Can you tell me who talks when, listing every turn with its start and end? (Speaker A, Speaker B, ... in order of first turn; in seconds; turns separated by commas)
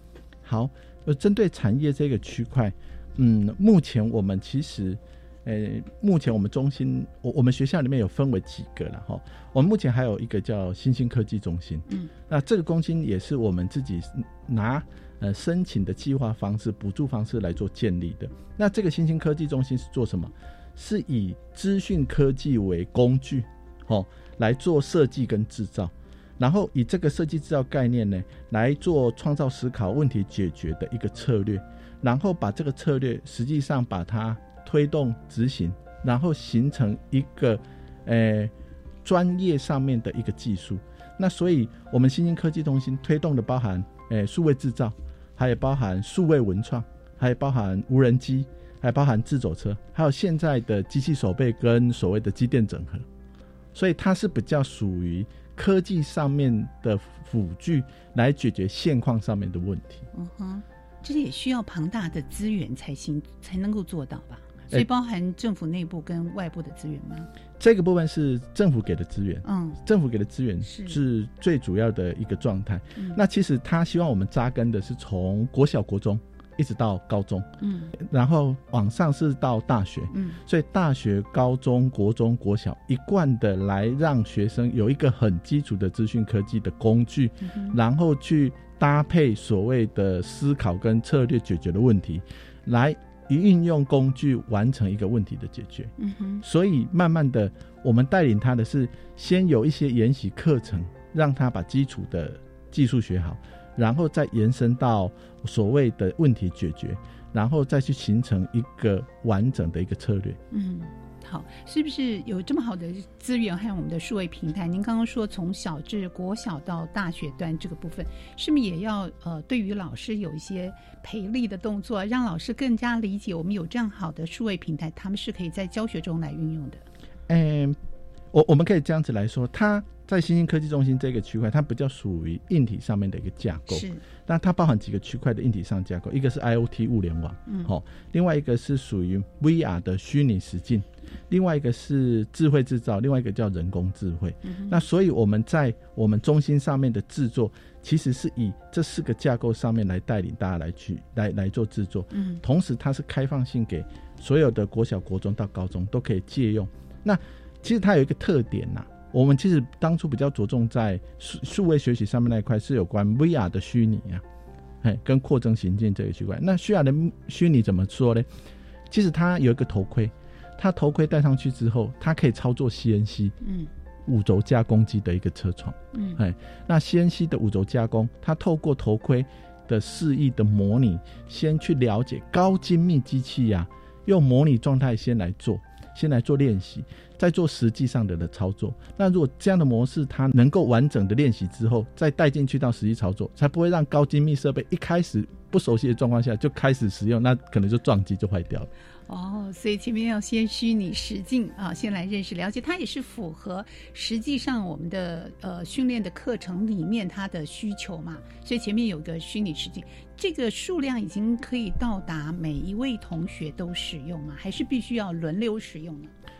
Speaker A: 0.5-38.5, Speaker A: 39.0-53.0, Speaker A: 53.8-60.1, Speaker B: 60.1-67.3, Speaker A: 67.6-95.9, Speaker B: 69.5-69.8, Speaker B: 70.6-71.0, Speaker B: 77.6-77.9, Speaker B: 80.1-80.4, Speaker B: 87.5-87.8, Speaker B: 96.0-96.4, Speaker A: 96.4-110.4, Speaker B: 110.5-126.8, Speaker A: 127.3-127.8, Speaker A: 128.3-164.2, Speaker B: 133.7-134.0, Speaker B: 144.5-144.8, Speaker B: 152.1-152.4, Speaker A: 164.8-168.3, Speaker A: 168.9-173.3, Speaker B: 173.4-173.7, Speaker A: 174.1-198.7, Speaker B: 175.9-176.2, Speaker B: 199.1-216.1